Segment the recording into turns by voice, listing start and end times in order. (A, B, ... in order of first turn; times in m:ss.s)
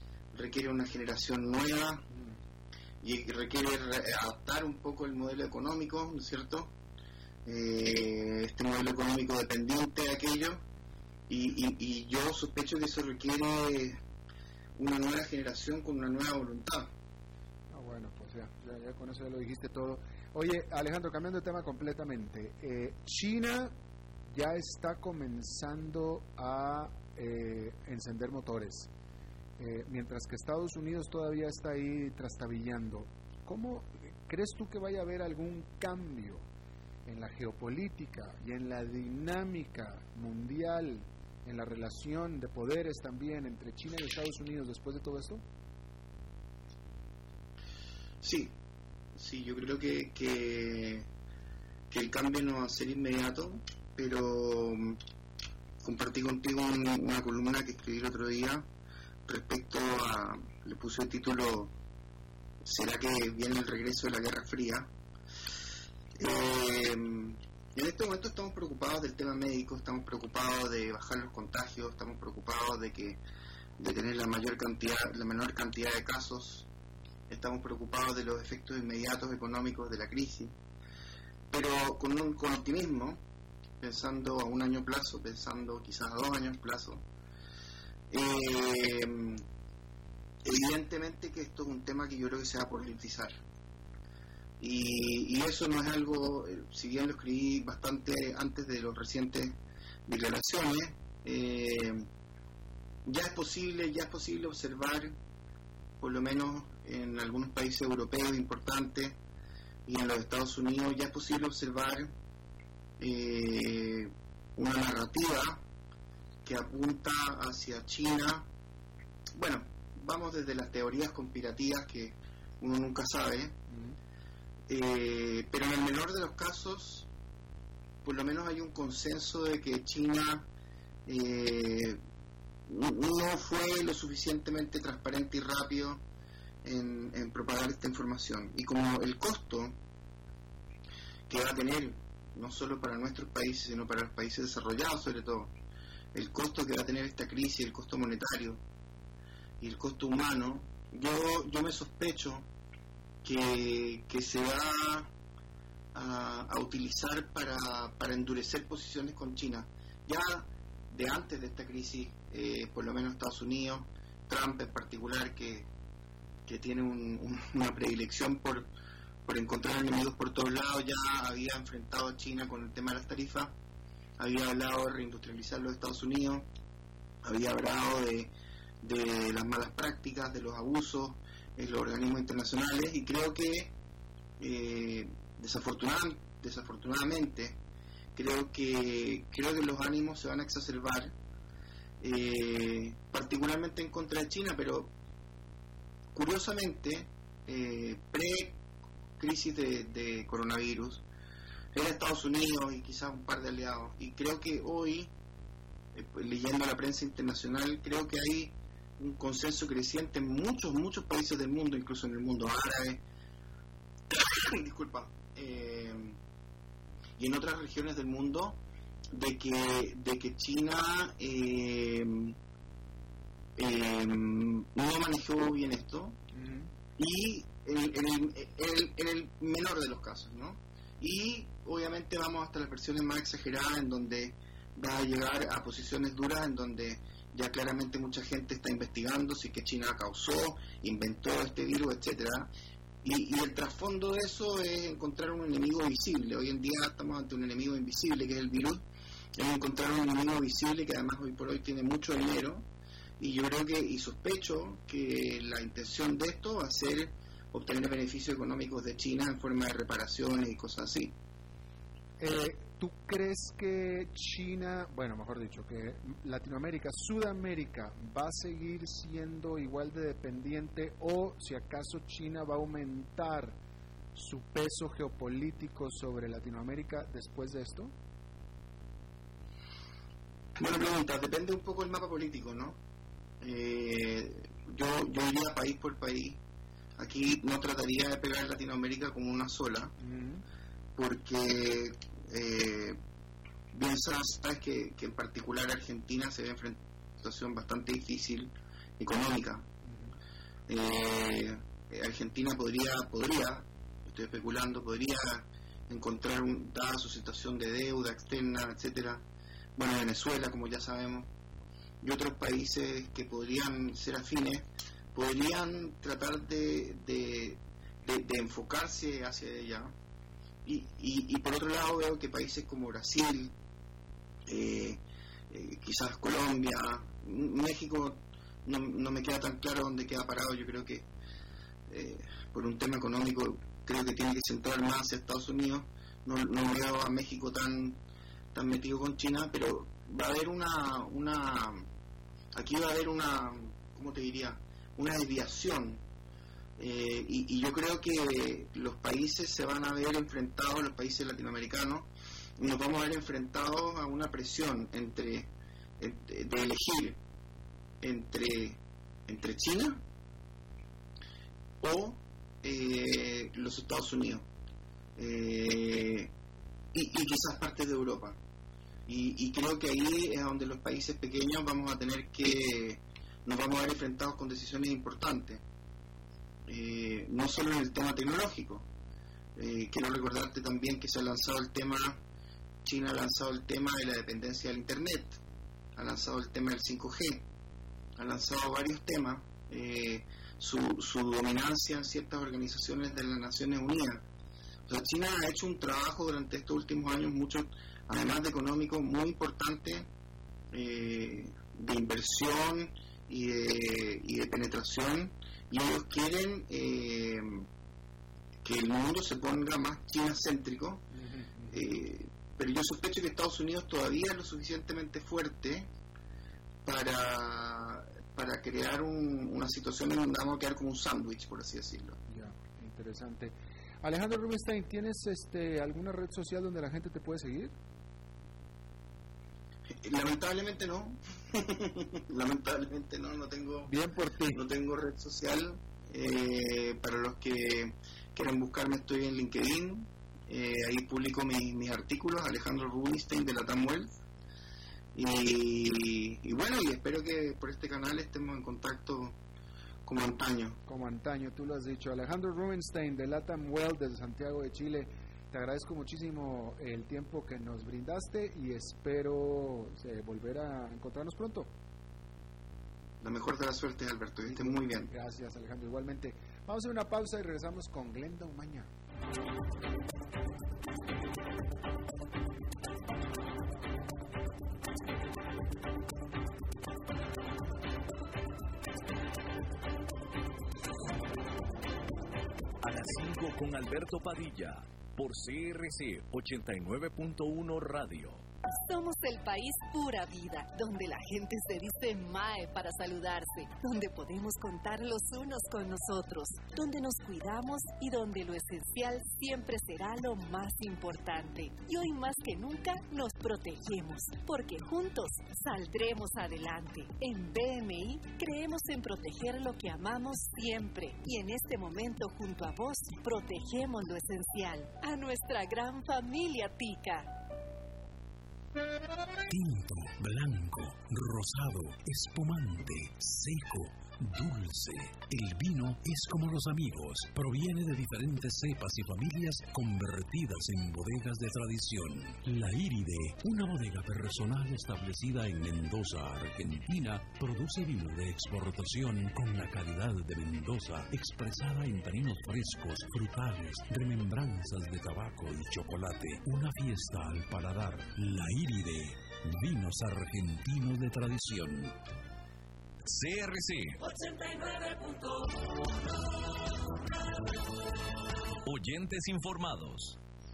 0:00.3-0:02.1 A
0:02.1-0:02.4 B
0:03.0-0:06.7 A
0:07.4-0:10.6 A
0:11.3-0:14.0 A
0:14.8-0:16.9 A
0:17.7-0:23.7 B
0:24.3-0:28.9 B
0:29.6-0:36.4 B
0:37.0-0:45.4 B
0:48.2-0:48.6 A
0:49.2-0:51.1 A
0:51.9-0:55.0 A
0:55.8-0:58.7 A
0:59.2-1:01.7 A
1:02.6-1:04.9 A
1:06.2-1:13.2 A
1:13.8-1:16.7 A
1:17.3-1:20.6 A
1:21.5-1:23.2 A
1:23.8-1:27.0 A
1:28.1-1:29.4 A
1:30.4-1:33.4 A
1:34.6-1:42.1 A
1:43.0-1:45.2 A
1:46.0-1:49.2 A
1:49.8-1:52.1 A
1:53.0-1:55.6 A
1:56.4-1:58.5 A
1:59.4-2:03.6 A
2:03.7-2:04.0 B
2:04.7-2:07.1 A
2:08.0-2:10.5 A
2:11.0-2:12.0 A
2:12.7-2:16.0 A
2:16.6-2:19.8 A
2:21.3-2:25.5 A
2:26.1-2:28.6 A
2:29.6-2:32.5 A
2:33.2-2:35.1 A
2:35.9-2:45.7 A
2:46.4-2:48.7 A
2:49.2-2:53.5 A
2:54.2-2:56.5 A
2:57.2-3:03.7 A
3:04.4-3:07.6 A
3:08.1-3:11.1 A
3:12.0-3:14.9 A
3:16.1-3:18.6 A
3:19.2-3:21.0 A
3:21.7-3:25.1 A
3:25.9-3:33.0 A
3:34.1-3:36.2 A
3:37.2-3:38.6 A
3:39.1-3:42.4 A
3:43.6-3:46.2 A
3:46.3-3:46.7 B
3:47.0-4:02.5 A
4:03.0-4:08.8 A
4:09.4-4:12.7 A
4:13.2-4:21.1 A
4:22.2-4:33.6 B
4:34.1-4:37.9 B
4:40.6-4:42.8 A
4:43.4-4:46.4 A
4:47.0-4:49.9 A
4:50.0-4:50.4 B
4:51.0-4:53.0 A
4:53.7-4:59.7 A
4:59.8-5:00.1 B
5:00.7-5:09.2 A
5:09.8-5:11.3 A
5:12.0-5:19.9 A
5:20.6-5:23.5 A
5:24.5-5:31.1 A
5:31.9-5:38.0 A
5:38.5-5:41.8 A
5:42.6-5:46.0 A
5:46.8-5:52.1 A
5:52.6-5:57.2 A
5:58.0-6:00.0 A
6:01.8-6:04.5 A
6:05.2-6:06.3 A
6:06.9-6:08.4 A
6:09.1-6:15.6 A
6:16.6-6:18.9 A
6:19.6-6:22.2 A
6:22.8-6:25.4 A
6:26.0-6:27.4 A
6:28.2-6:34.2 A
6:34.9-6:40.1 A
6:40.7-6:47.7 A
6:48.6-6:51.0 A
6:51.1-6:51.8 B
6:51.7-6:55.9 A
6:56.8-7:02.2 A
7:02.3-7:07.7 B
7:10.0-7:13.9 A
7:13.8-7:14.6 B
7:14.5-7:24.1 A
7:25.1-7:29.4 A
7:30.0-7:30.8 A
7:30.8-7:41.7 B
7:43.2-7:45.1 A
7:44.5-7:48.9 B
8:02.8-8:08.4 C
8:08.7-8:37.3 D
8:39.5-9:12.0 E
9:13.0-9:15.4 C
9:18.6-9:20.2 C